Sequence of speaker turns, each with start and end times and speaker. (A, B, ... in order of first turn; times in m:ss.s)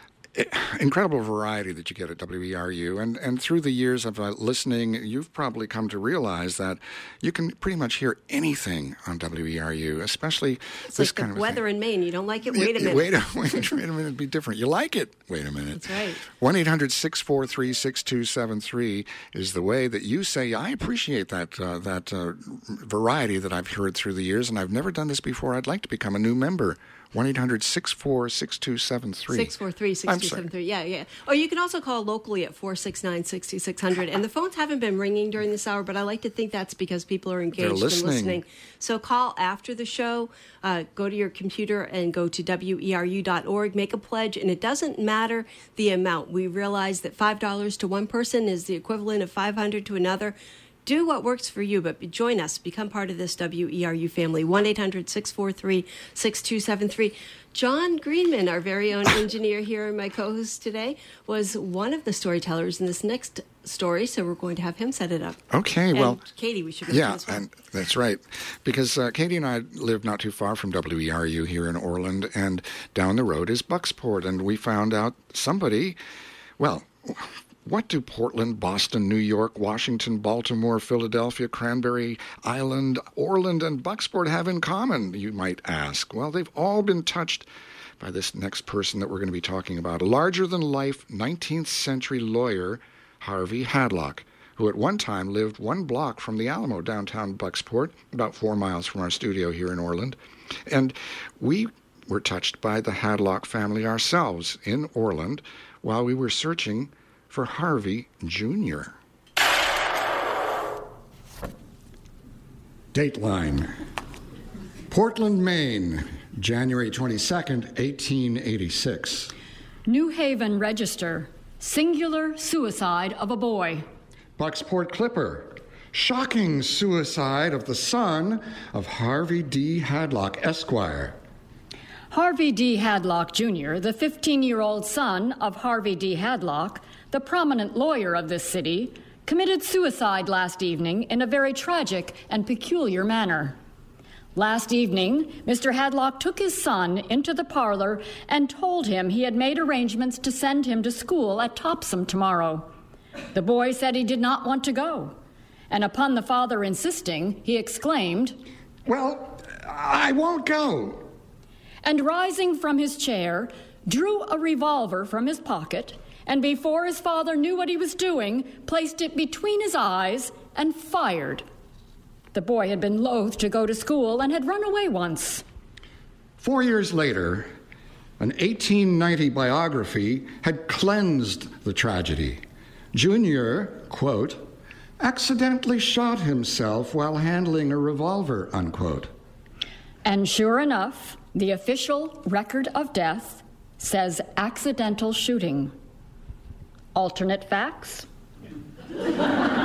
0:00.3-0:11.6 A
0:10.9-0:13.2 B
0:12.5-0:29.5 A
0:15.8-0:16.2 B
0:29.3-1:05.4 B
0:30.1-0:30.4 A
0:37.6-0:38.4 A
1:05.5-1:06.2 A
1:05.9-1:07.4 B
1:06.9-1:16.0 A
1:16.6-1:27.5 A
1:28.0-1:48.9 A
1:52.9-1:53.7 A
1:54.9-1:59.3 A
1:59.8-2:03.8 C
2:04.4-2:11.2 A
2:12.1-2:23.6 C
2:24.3-2:32.7 C
2:33.3-2:35.1 C
2:35.7-2:38.4 C
2:38.8-2:41.0 A
2:41.8-2:51.4 C
2:52.3-2:55.4 C
2:56.4-2:57.5 A
2:58.2-3:02.4 A
3:02.9-3:04.4 A
3:05.0-3:09.1 A
3:10.0-3:15.7 C
3:16.9-3:18.0 C